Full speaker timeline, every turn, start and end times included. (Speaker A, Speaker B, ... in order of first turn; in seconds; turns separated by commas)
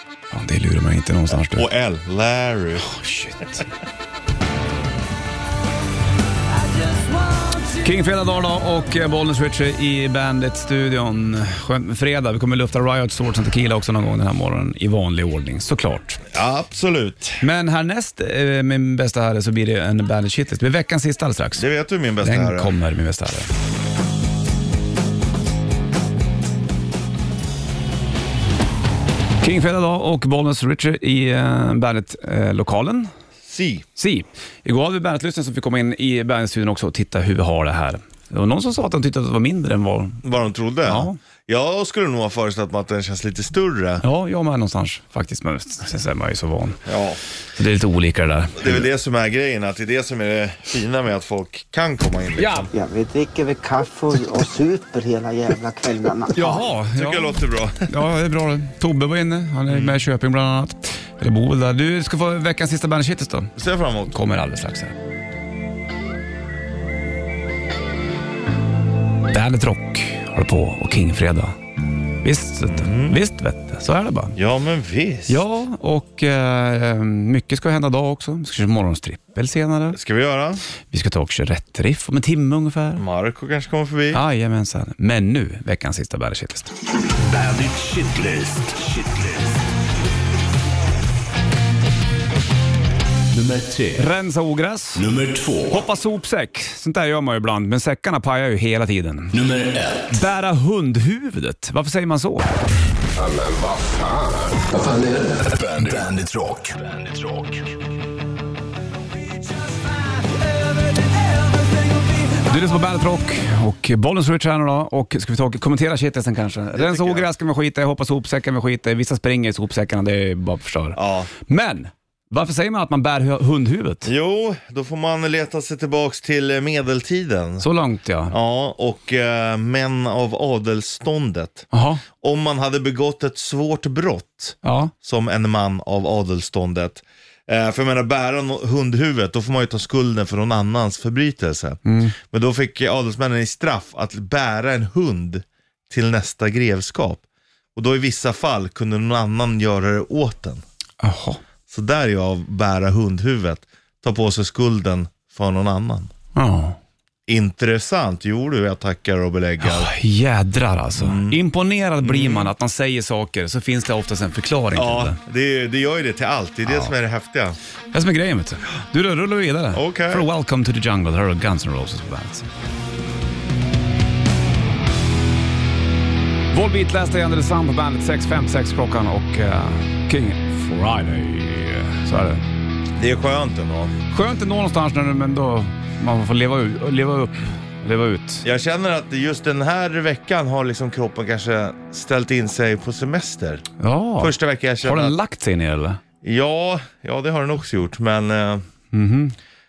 Speaker A: 0.3-1.7, Speaker B: 1.3-2.9, Speaker A: 2.8-3.7, Speaker A: 7.8-16.2, Speaker B: 16.3-17.4, Speaker A: 17.4-21.6, Speaker B: 21.6-22.7, Speaker A: 22.2-23.5, Speaker A: 29.4-33.1, Speaker B: 33.4-33.8, Speaker A: 34.0-40.2, Speaker B: 40.2-44.0, Speaker A: 40.9-41.2, Speaker A: 44.0-46.8, Speaker B: 46.9-47.2, Speaker A: 47.5-48.9, Speaker B: 48.6-52.7, Speaker A: 52.4-52.7, Speaker C: 52.7-56.6, Speaker A: 56.3-57.3, Speaker B: 56.9-57.9, Speaker A: 57.9-63.5, Speaker B: 59.7-60.0, Speaker B: 63.5-64.2, Speaker A: 64.1-65.0, Speaker A: 69.3-71.5, Speaker A: 72.2-74.3, Speaker B: 72.7-73.2, Speaker B: 74.3-75.4, Speaker A: 75.3-80.0, Speaker B: 79.9-80.6, Speaker A: 80.9-83.0, Speaker B: 83.0-84.2, Speaker A: 84.1-86.7, Speaker D: 87.2-89.5, Speaker D: 93.3-94.0, Speaker A: 93.9-95.0, Speaker D: 95.0-95.8, Speaker A: 95.7-99.4, Speaker D: 99.3-100.1, Speaker A: 100.1-102.5, Speaker D: 103.2-107.7, Speaker A: 112.3-124.1, Speaker B: 116.7-117.3, Speaker B: 120.9-121.3, Speaker B: 124.0-127.6, Speaker A: 127.6-128.3, Speaker B: 128.3-147.2, Speaker A: 131.7-132.0, Speaker A: 134.6-134.9, Speaker A: 141.8-142.2, Speaker B: 147.8-150.6, Speaker A: 151.0-151.4, Speaker B: 151.7-156.1, Speaker A: 156.3-156.8, Speaker B: 157.3-159.9, Speaker A: 159.6-165.2, Speaker B: 161.0-161.4, Speaker B: 162.0-162.5, Speaker B: 164.7-167.6, Speaker A: 167.9-172.4, Speaker B: 169.7-170.2, Speaker A: 176.5-182.4, Speaker B: 183.0-183.9, Speaker A: 184.1-188.4, Speaker B: 188.4-193.7, Speaker A: 193.8-196.0, Speaker B: 194.2-195.2, Speaker B: 196.2-198.6, Speaker A: 198.9-199.3